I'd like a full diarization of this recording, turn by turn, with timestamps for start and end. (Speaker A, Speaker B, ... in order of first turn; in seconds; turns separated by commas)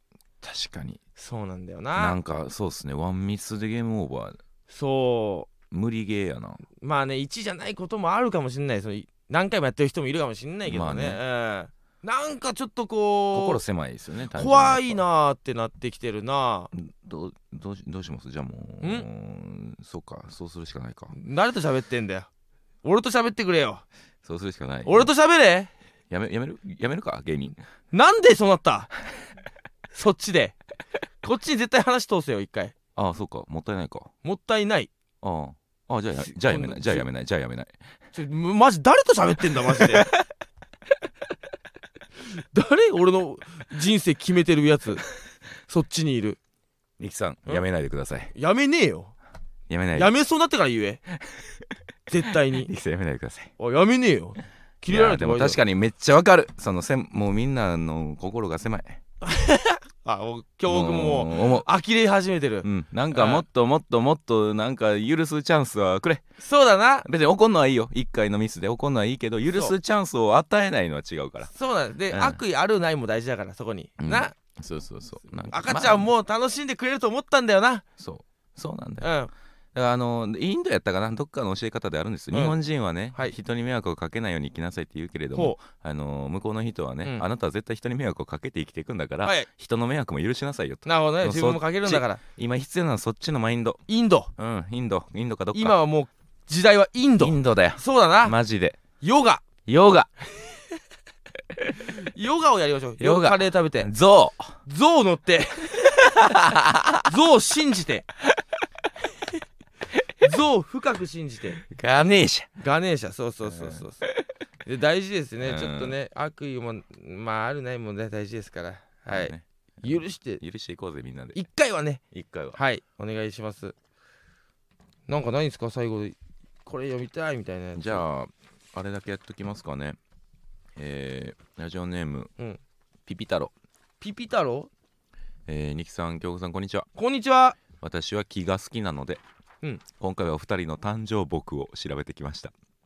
Speaker A: 0.4-1.0, Speaker B: 1.2-2.2, Speaker A: 1.9-4.4, Speaker B: 4.7-5.5, Speaker A: 5.7-6.6, Speaker B: 6.8-13.6, Speaker A: 10.7-11.2, Speaker A: 13.3-15.0, Speaker B: 14.3-16.7, Speaker A: 16.7-21.1, Speaker B: 18.8-19.1, Speaker B: 21.1-22.3, Speaker B: 22.8-23.8, Speaker A: 24.2-25.1, Speaker B: 24.8-25.7, Speaker A: 26.1-27.6, Speaker B: 27.9-28.9, Speaker B: 29.9-30.5, Speaker B: 31.2-32.7, Speaker A: 33.0-34.1, Speaker B: 34.2-34.9, Speaker A: 35.2-37.7, Speaker B: 36.2-37.0, Speaker B: 38.1-40.1, Speaker B: 42.3-45.0, Speaker B: 45.7-46.4, Speaker A: 47.0-48.3, Speaker B: 48.3-49.1, Speaker A: 49.7-50.1, Speaker B: 49.9-51.0, Speaker B: 52.1-52.7, Speaker A: 52.6-53.5, Speaker B: 53.6-55.6, Speaker A: 54.9-59.0, Speaker B: 59.2-63.4, Speaker A: 60.7-61.7, Speaker A: 62.6-66.2, Speaker B: 66.4-67.1, Speaker A: 67.0-71.5, Speaker B: 71.5-74.3, Speaker A: 72.1-72.4, Speaker A: 74.0-76.1, Speaker B: 75.5-77.8, Speaker A: 78.0-79.1, Speaker B: 79.0-79.3, Speaker A: 79.7-93.8, Speaker B: 90.8-92.2, Speaker B: 93.9-94.3, Speaker A: 94.4-95.8, Speaker B: 95.5-98.3, Speaker A: 97.2-98.8, Speaker B: 99.0-99.5, Speaker A: 99.7-100.1, Speaker B: 102.0-103.9, Speaker A: 103.0-104.6, Speaker B: 104.7-105.9, Speaker A: 105.8-107.1, Speaker B: 107.0-108.0, Speaker B: 110.2-111.6, Speaker A: 111.6-112.5, Speaker B: 112.6-114.0, Speaker A: 113.4-114.2, Speaker B: 114.6-120.4, Speaker A: 115.4-115.9, Speaker A: 119.1-121.4, Speaker B: 121.3-122.0, Speaker A: 122.1-122.6, Speaker B: 122.5-123.7, Speaker B: 125.1-128.0, Speaker A: 127.7-130.0, Speaker A: 130.8-132.3, Speaker A: 133.1-133.5, Speaker B: 134.0-134.7, Speaker A: 135.5-136.9, Speaker B: 136.9-137.6, Speaker A: 137.7-139.2, Speaker A: 139.9-142.5